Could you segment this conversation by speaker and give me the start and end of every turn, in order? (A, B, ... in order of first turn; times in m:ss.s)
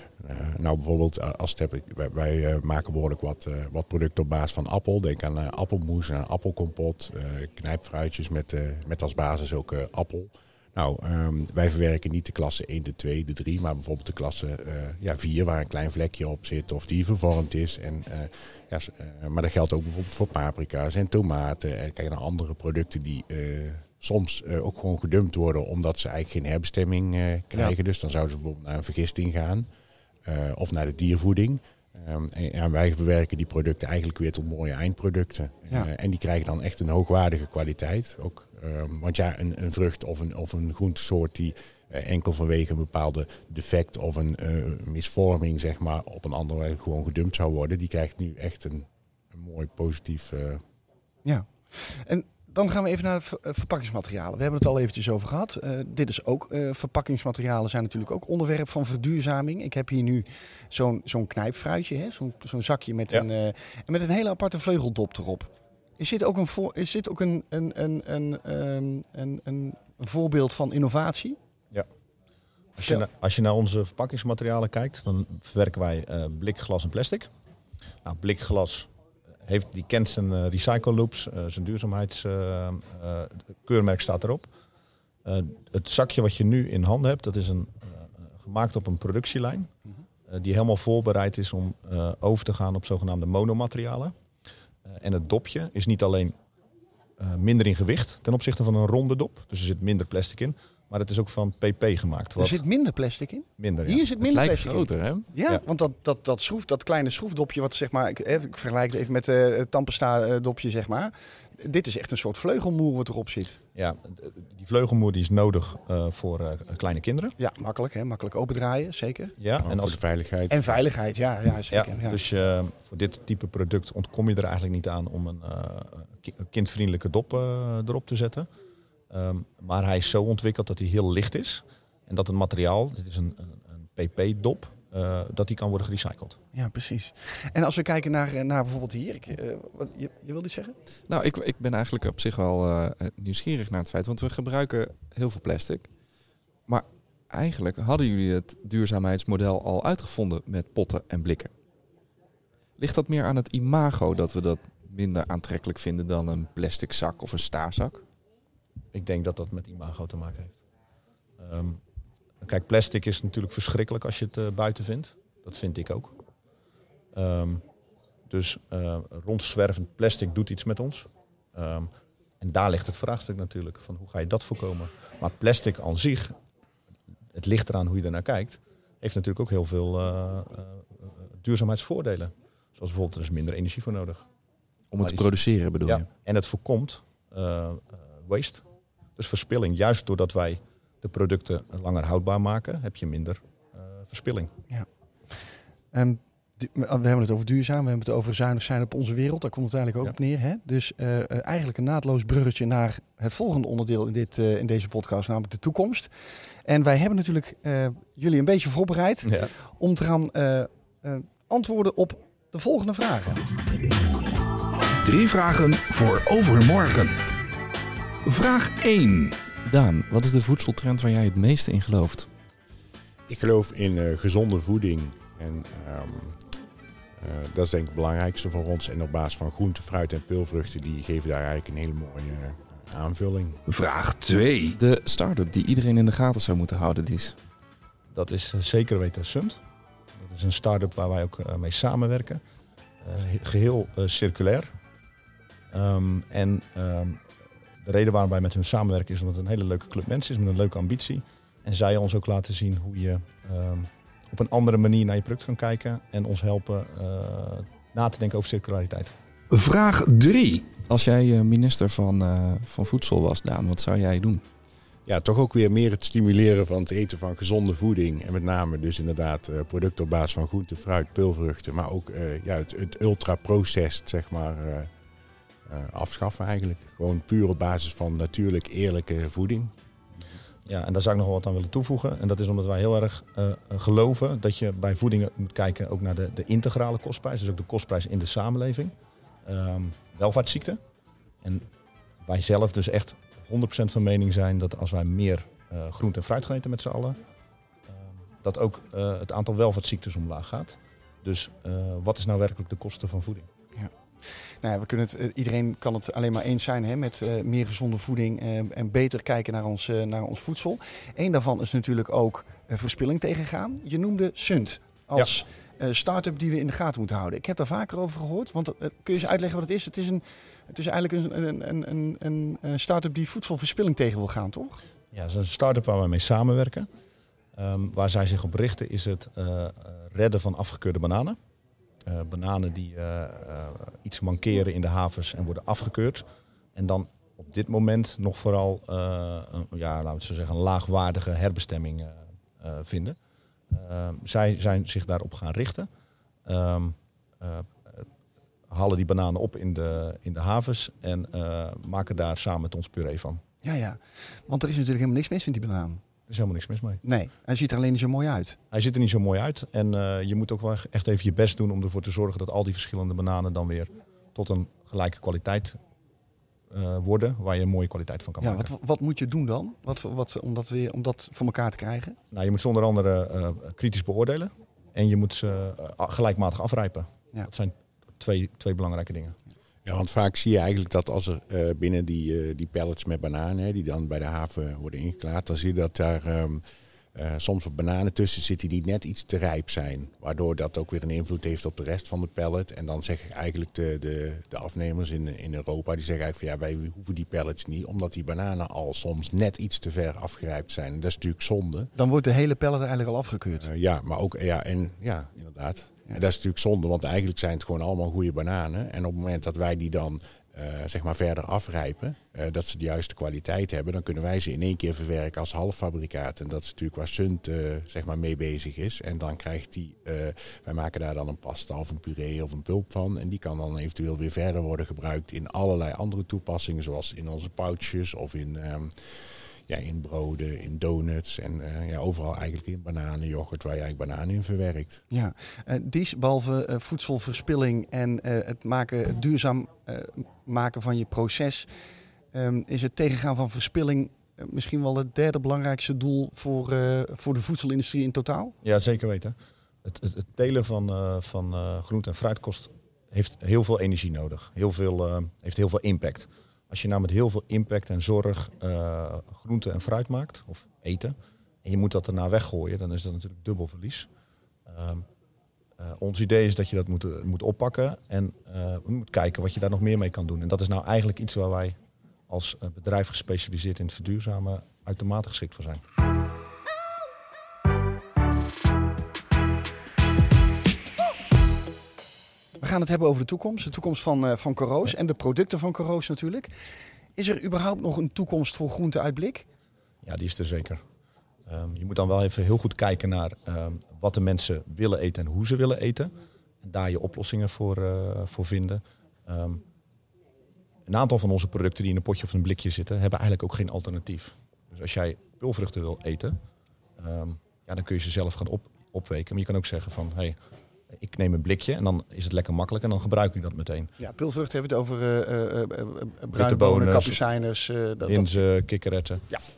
0:00.2-0:29.7 A
0:30.2-0:50.6 A
0:51.2-1:11.4 B
1:12.8-1:17.3 C
1:18.0-1:18.9 C
1:19.4-1:24.5 C
1:25.2-1:29.7 C
1:30.3-1:34.1 C
1:34.8-1:36.4 C
1:37.2-1:42.6 C
1:42.4-1:53.6 B
1:43.6-1:44.1 C
1:44.2-1:45.3 D
1:53.8-1:57.4 C
1:57.4-1:59.4 B
1:59.4-2:00.0 C
1:59.6-2:00.8 A
2:00.5-2:02.2 B
2:01.7-2:08.5 C
2:09.1-2:16.4 C
2:16.5-2:20.8 B
2:21.1-2:25.9 D
2:26.7-2:31.5 D
2:32.8-2:38.0 D
2:38.9-2:40.6 C
2:41.4-2:41.8 C
2:42.4-2:46.2 C
2:47.1-2:47.6 C
2:48.3-2:51.9 C
2:52.4-2:56.3 C
2:57.3-3:04.3 C
3:04.9-3:06.1 D
3:05.0-3:05.3 C
3:05.8-3:08.6 C
3:09.2-3:14.5 C
3:14.7-3:15.3 B
3:15.9-3:26.1 B
3:26.6-3:33.4 B
3:35.0-3:37.2 E
3:38.2-3:39.4 E
3:39.6-3:42.3 D
3:43.3-3:46.4 A
3:47.2-3:53.6 A
3:53.7-3:54.8 E
3:54.8-3:57.4 D
3:58.1-3:59.6 C
4:00.2-4:02.4 C
4:03.0-4:04.7 C
4:05.7-4:07.2 C
4:07.8-4:19.1 C
4:19.5-4:20.8 E
4:20.9-4:24.4 D
4:25.1-4:34.9 A
4:35.7-4:39.7 A
4:40.7-4:48.9 C
4:49.4-4:50.8 C
4:52.2-4:57.2 C
4:57.9-5:03.5 C
5:04.6-5:24.8 B
5:25.1-5:26.9 C
5:27.6-5:31.4 C
5:32.1-5:36.2 C
5:36.8-5:43.2 C
5:43.7-5:45.9 C
5:46.5-5:48.1 C
5:48.7-5:53.4 C
5:53.6-5:56.0 B
5:56.3-5:57.0 C
5:57.0-5:58.6 B
5:58.7-6:05.8 C
6:06.7-6:08.7 C
6:08.4-6:12.2 B
6:12.3-6:19.4 C
6:19.8-6:26.6 A
6:27.2-6:41.9 A
6:42.0-6:43.7 B
6:43.6-7:15.0 A
7:15.1-7:21.7 B
7:22.3-7:28.6 B
7:28.6-7:44.1 C
7:44.7-7:45.1 C
7:45.8-7:55.8 C
8:02.6-8:06.5 B
8:07.2-8:09.5 B
8:10.0-8:10.8 C
8:11.5-8:19.6 C
8:20.9-8:26.4 C
8:27.0-8:30.4 C
8:30.9-8:33.9 C
8:34.0-8:38.4 B
8:36.3-8:37.2 C
8:38.0-8:39.2 C